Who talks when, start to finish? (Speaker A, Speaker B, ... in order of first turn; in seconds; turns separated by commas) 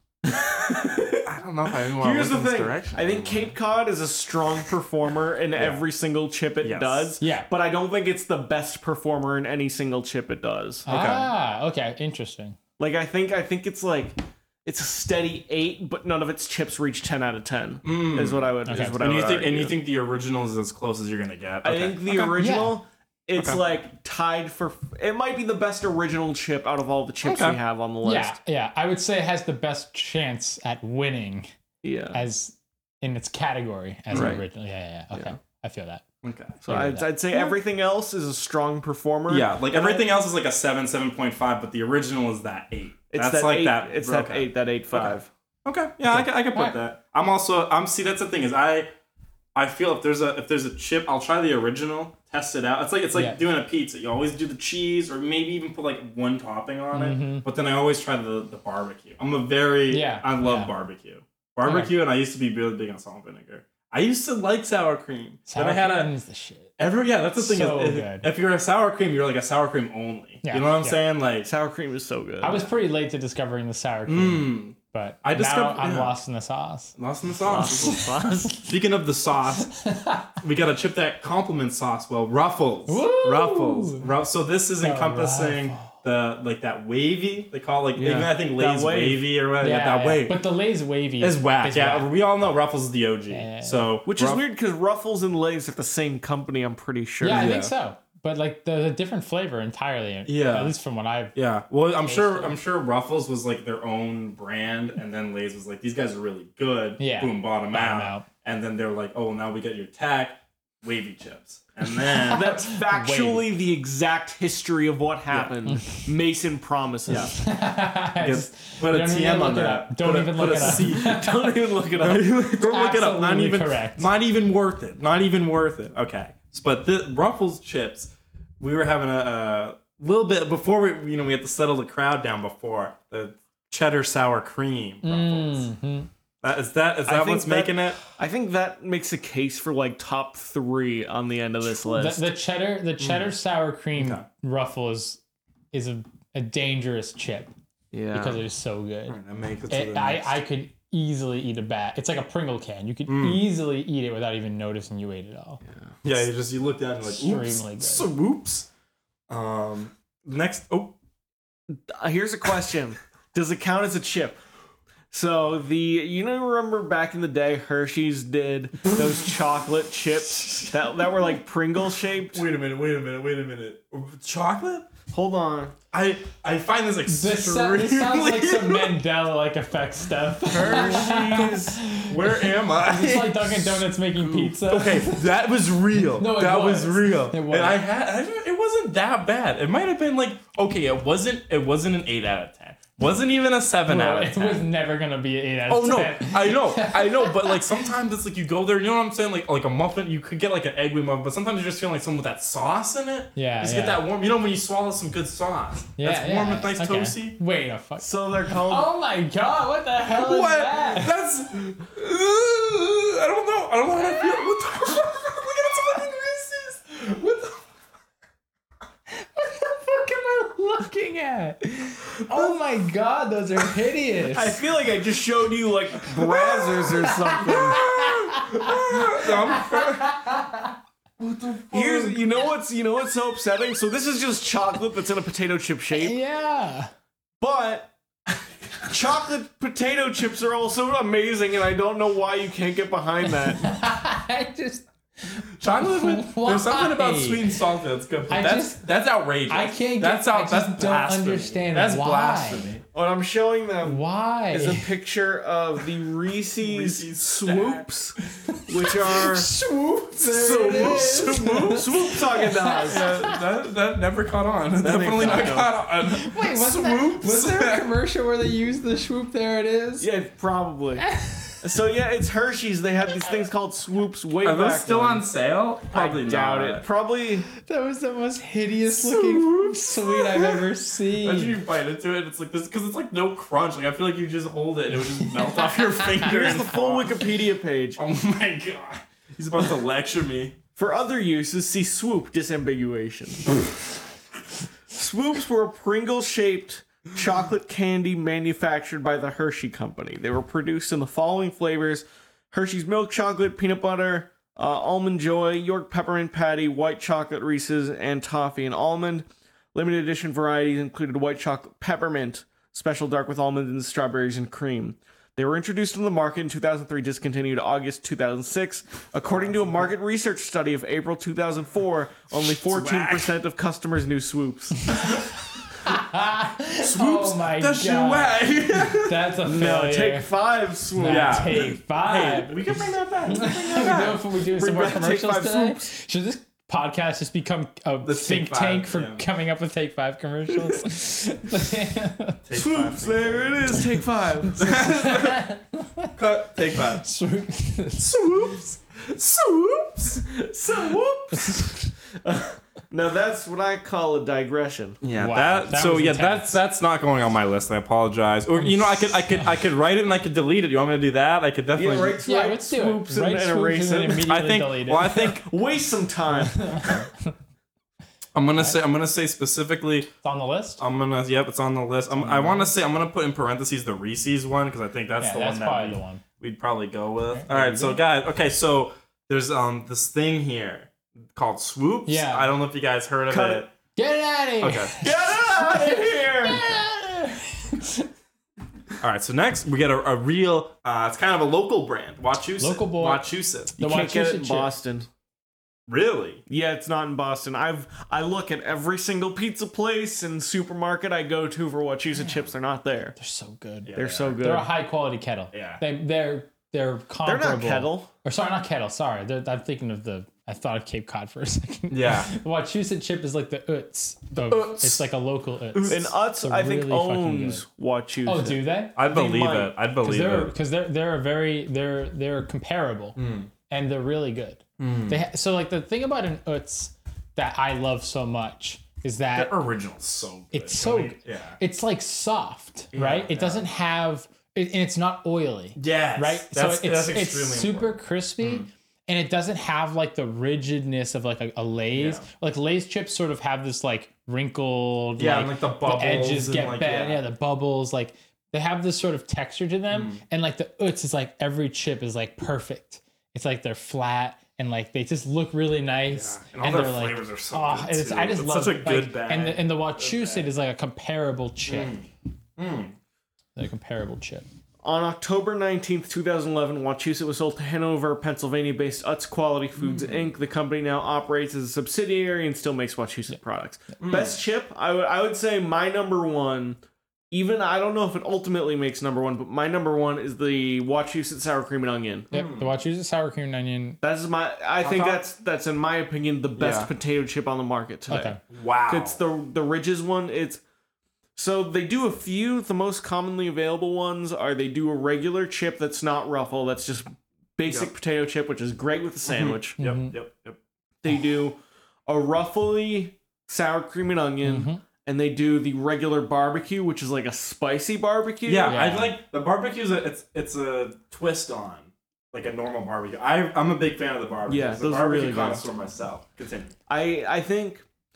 Speaker A: 0.3-1.3, Speaker B: 0.7-3.6, Speaker A: 1.9-10.9, Speaker B: 5.5-5.8, Speaker B: 6.6-7.1, Speaker C: 7.2-7.5, Speaker C: 10.9-12.6, Speaker B: 10.9-11.3, Speaker A: 12.8-19.8, Speaker B: 17.8-22.4, Speaker C: 18.7-19.0, Speaker A: 21.6-28.4, Speaker C: 22.4-22.8, Speaker B: 23.4-23.6, Speaker B: 27.2-27.6, Speaker C: 28.0-31.5, Speaker A: 31.8-32.2, Speaker C: 32.1-36.0, Speaker B: 34.1-34.4, Speaker A: 34.1-34.4, Speaker B: 36.2-36.6, Speaker A: 36.6-40.1, Speaker C: 36.6-37.1, Speaker B: 39.3-48.9, Speaker A: 43.1-45.3, Speaker C: 46.1-46.8, Speaker B: 49.5-66.1, Speaker C: 53.1-53.4, Speaker C: 56.9-57.5, Speaker C: 59.9-60.7, Speaker C: 61.6-61.9, Speaker C: 65.5-66.7, Speaker B: 66.8-71.5, Speaker C: 67.4-68.3, Speaker C: 70.4-71.0, Speaker A: 71.4-72.7, Speaker C: 72.4-76.9, Speaker B: 74.1-76.2, Speaker B: 77.0-78.1, Speaker A: 77.4-78.6, Speaker C: 77.5-78.7, Speaker B: 78.7-79.7, Speaker C: 79.7-80.4, Speaker B: 80.4-90.4, Speaker C: 82.9-84.1, Speaker C: 84.8-85.9, Speaker A: 88.0-89.3, Speaker C: 89.6-92.1, Speaker B: 91.2-94.4, Speaker C: 93.3-93.9, Speaker A: 94.1-97.7, Speaker C: 97.2-101.3, Speaker B: 97.3-97.7, Speaker B: 100.3-100.8, Speaker B: 101.3-112.6, Speaker C: 102.0-102.6, Speaker C: 107.0-108.3, Speaker C: 112.1-113.6, Speaker A: 112.3-117.3, Speaker B: 115.3-115.6, Speaker C: 115.7-116.1, Speaker B: 117.1-117.4, Speaker C: 117.3-121.6, Speaker B: 118.2-121.2, Speaker A: 120.5-122.6, Speaker B: 122.0-135.7, Speaker C: 122.6-124.1, Speaker C: 135.0-136.1, Speaker B: 136.4-138.0, Speaker A: 137.1-142.3, Speaker C: 141.7-145.2, Speaker B: 143.0-143.3, Speaker B: 144.0-144.2, Speaker C: 145.7-147.5, Speaker A: 147.9-148.4, Speaker C: 148.1-149.2, Speaker B: 149.1-150.4, Speaker C: 149.7-155.6, Speaker B: 153.1-153.4, Speaker B: 156.0-158.7, Speaker C: 157.0-158.1, Speaker B: 159.3-161.0, Speaker A: 161.9-164.4, Speaker A: 165.1-172.4, Speaker B: 172.3-174.9, Speaker A: 175.1-175.8, Speaker B: 175.9-179.0, Speaker C: 177.1-185.4, Speaker A: 180.5-181.8, Speaker B: 180.6-181.4, Speaker B: 182.1-194.7, Speaker C: 186.0-187.8, Speaker C: 193.9-197.7, Speaker B: 195.7-207.4, Speaker C: 203.4-204.0, Speaker C: 206.0-211.2, Speaker A: 208.0-208.9, Speaker B: 210.1-217.6, Speaker C: 219.1-224.6, Speaker B: 222.3-222.6, Speaker A: 224.3-227.8, Speaker B: 226.3-226.7, Speaker C: 226.9-230.7, Speaker B: 227.4-230.2, Speaker B: 231.2-232.2, Speaker A: 231.7-236.2, Speaker C: 235.9-236.9, Speaker A: 237.4-237.9, Speaker A: 238.8-243.7, Speaker C: 243.4-247.5, Speaker B: 245.6-252.8, Speaker C: 248.3-248.8, Speaker C: 249.5-252.7, Speaker A: 252.9-259.5, Speaker C: 253.8-254.9, Speaker B: 256.6-257.9, Speaker C: 258.4-263.4, Speaker B: 260.2-262.1, Speaker A: 260.2-263.1, Speaker B: 262.9-267.9, Speaker A: 264.8-265.7, Speaker C: 265.2-270.1, Speaker A: 270.0-271.1, Speaker C: 271.1-271.6, Speaker A: 271.6-275.3, Speaker B: 274.4-276.9, Speaker A: 275.9-277.5, Speaker C: 277.5-281.6, Speaker B: 278.9-280.6, Speaker B: 281.2-287.2, Speaker C: 285.2-286.5, Speaker A: 286.2-288.0, Speaker B: 288.0-290.6, Speaker A: 290.8-293.6, Speaker A: 294.9-325.0, Speaker B: 322.4-323.4, Speaker C: 324.9-325.2, Speaker B: 325.0-325.3, Speaker C: 325.8-330.3, Speaker B: 326.8-329.3, Speaker A: 329.4-331.7, Speaker C: 330.9-342.4, Speaker B: 331.0-334.2, Speaker A: 333.9-335.9, Speaker B: 338.0-339.2, Speaker B: 342.5-343.8, Speaker A: 342.5-344.7, Speaker C: 344.5-346.1, Speaker B: 344.6-345.5, Speaker B: 346.2-347.1, Speaker C: 346.8-348.1, Speaker B: 348.0-350.2, Speaker A: 350.2-355.0, Speaker C: 351.3-351.9, Speaker B: 355.0-362.2, Speaker C: 355.1-356.6, Speaker C: 358.6-359.5, Speaker A: 361.8-364.3, Speaker C: 362.2-365.3, Speaker B: 364.3-365.5, Speaker A: 365.1-366.8, Speaker C: 366.4-367.3, Speaker B: 368.4-370.1, Speaker C: 370.2-370.8, Speaker B: 370.8-383.7, Speaker C: 372.1-372.7, Speaker C: 375.2-376.2, Speaker C: 377.3-378.0, Speaker C: 382.1-382.5, Speaker A: 383.3-383.7, Speaker C: 384.0-388.1, Speaker B: 384.6-384.9, Speaker A: 385.0-386.8, Speaker B: 389.0-393.7, Speaker C: 392.6-394.7, Speaker A: 393.8-395.1, Speaker B: 395.9-396.4, Speaker A: 396.5-403.2, Speaker C: 403.2-417.6, Speaker B: 403.9-404.4, Speaker A: 403.9-404.7, Speaker B: 405.5-405.8, Speaker A: 407.2-408.1, Speaker B: 411.9-412.3, Speaker B: 414.4-415.1, Speaker B: 415.8-416.0, Speaker A: 415.9-419.7, Speaker C: 418.2-419.0, Speaker B: 419.0-420.5, Speaker C: 420.0-429.6, Speaker B: 423.2-423.5, Speaker B: 424.8-425.2, Speaker B: 429.3-431.6, Speaker C: 430.5-462.0, Speaker B: 432.9-433.7, Speaker B: 435.8-438.7, Speaker B: 441.9-442.2, Speaker B: 445.2-447.2, Speaker B: 449.9-450.2, Speaker B: 456.1-460.5, Speaker B: 461.7-462.9, Speaker C: 463.6-464.5, Speaker A: 464.8-476.8, Speaker B: 469.8-470.2, Speaker B: 474.0-474.4, Speaker A: 477.3-482.3, Speaker B: 482.3-482.7, Speaker C: 482.3-484.0, Speaker A: 484.0-488.4, Speaker B: 484.8-485.2, Speaker B: 486.6-486.9, Speaker C: 488.1-488.4, Speaker B: 488.5-489.2, Speaker A: 488.9-490.6, Speaker A: 491.4-499.8, Speaker B: 497.7-497.9, Speaker B: 499.2-500.6, Speaker C: 499.8-500.1, Speaker A: 501.0-508.8, Speaker C: 504.4-504.8, Speaker B: 508.4-516.7, Speaker C: 508.6-509.2, Speaker A: 514.5-515.6, Speaker A: 516.9-517.9